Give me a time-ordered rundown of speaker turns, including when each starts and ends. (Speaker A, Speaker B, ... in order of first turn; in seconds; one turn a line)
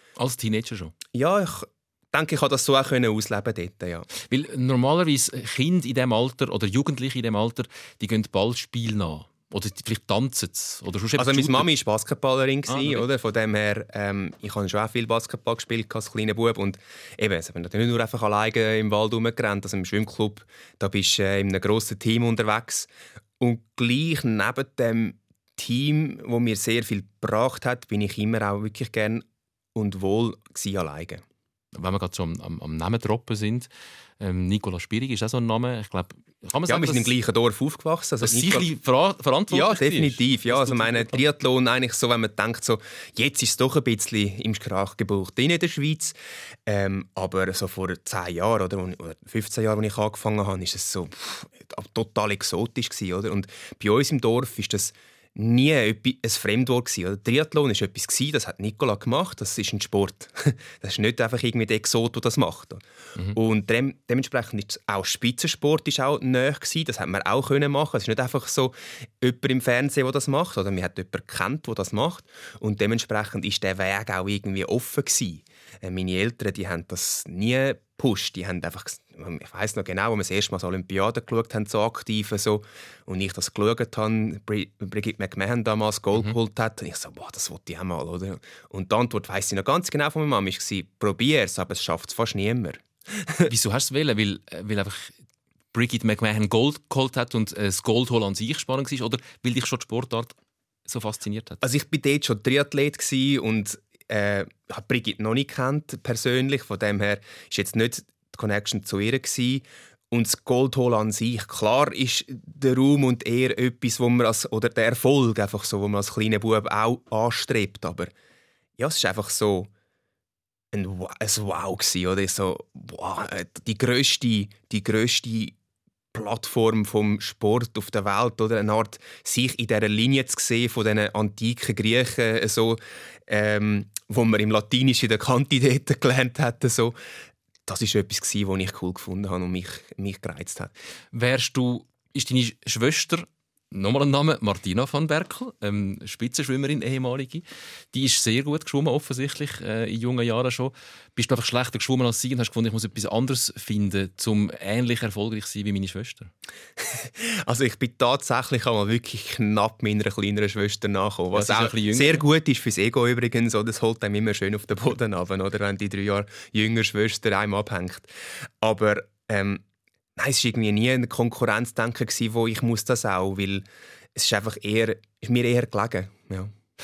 Speaker A: 0.2-0.9
Speaker B: 1.1-4.1
Speaker A: 4.3-11.7
Speaker B: 11.2-31.2
Speaker A: 12.7-13.0
Speaker A: 31.7-33.7
Speaker A: 34.2-37.1
Speaker B: 36.7-38.7
Speaker A: 38.2-41.2
Speaker B: 39.5-62.8
Speaker B: 63.3-93.5
Speaker A: 93.5-95.2
Speaker A: 95.7-101.6
Speaker B: 101.6-118.1
Speaker B: 118.8-119.7
Speaker B: 120.7-125.5
Speaker B: 126.1-137.0
Speaker B: 137.7-140.7
Speaker A: 141.1-156.3
Speaker B: 156.8-168.1
Speaker A: 161.3-162.2
Speaker B: 168.6-169.6
Speaker B: 170.2-176.5